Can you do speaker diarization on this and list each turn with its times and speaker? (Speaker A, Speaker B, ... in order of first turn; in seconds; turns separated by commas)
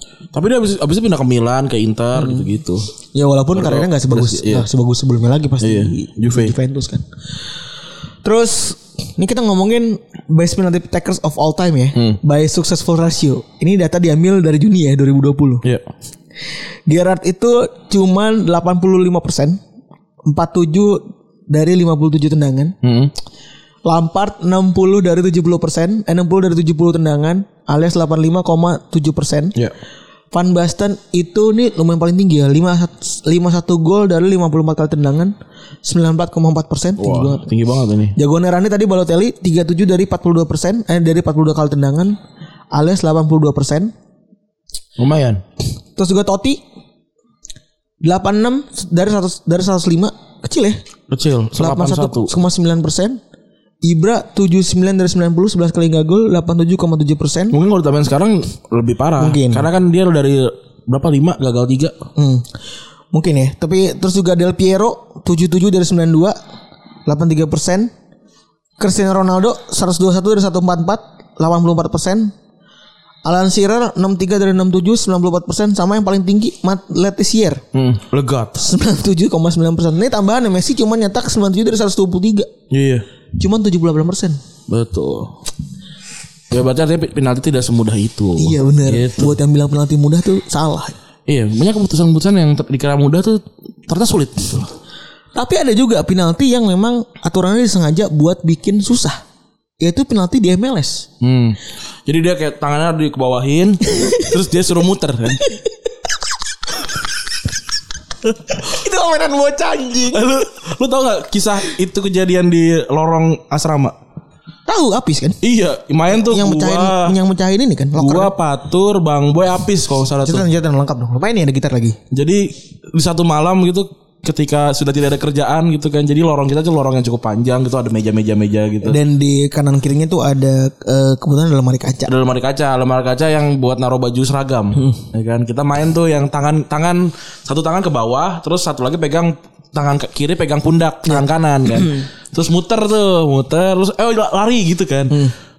Speaker A: 0.3-2.9, Speaker B: 2.1-2.5, Speaker B: 3.1-7.0, Speaker A: 3.5-4.7, Speaker A: 5.6-6.5, Speaker B: 8.2-15.6, Speaker A: 11.9-12.2, Speaker B: 16.9-19.6, Speaker B: 20.2-22.7, Speaker A: 22.8-23.1, Speaker B: 23.9-29.5, Speaker B: 30.3-35.3, Speaker B: 35.8-37.5, Speaker A: 37.0-38.1, Speaker B: 38.1-42.2, Speaker B: 42.7-43.9, Speaker A: 45.0-45.4, Speaker B: 46.0-46.6, Speaker B: 48.0-50.8, Speaker A: 51.1-52.3, Speaker B: 51.5-53.2, Speaker B: 53.8-57.5, Speaker A: 57.5-61.9, Speaker B: 59.2-59.7, Speaker B: 62.1-62.5, Speaker B: 63.1-66.4, Speaker B: 67.0-67.9, Speaker B: 68.8-72.3, Speaker B: 73.2-77.6, Speaker A: 77.7-78.6, Speaker B: 78.5-82.5, Speaker A: 82.7-83.0, Speaker B: 83.4-84.4, Speaker A: 84.7-85.3, Speaker A: 86.5-89.3, Speaker B: 88.4-91.0, Speaker A: 91.3-94.7, Speaker B: 95.3-99.2, Speaker B: 99.8-101.1, Speaker A: 101.2-105.5, Speaker B: 103.9-104.2, Speaker B: 108.4-110.2, Speaker A: 110.1-113.9, Speaker B: 114.7-115.4, Speaker A: 115.4-117.2, Speaker B: 116.1-118.3, Speaker A: 118.0-120.5, Speaker B: 120.2-122.0, Speaker A: 122.1-129.0, Speaker B: 128.8-132.1, Speaker A: 132.1-145.3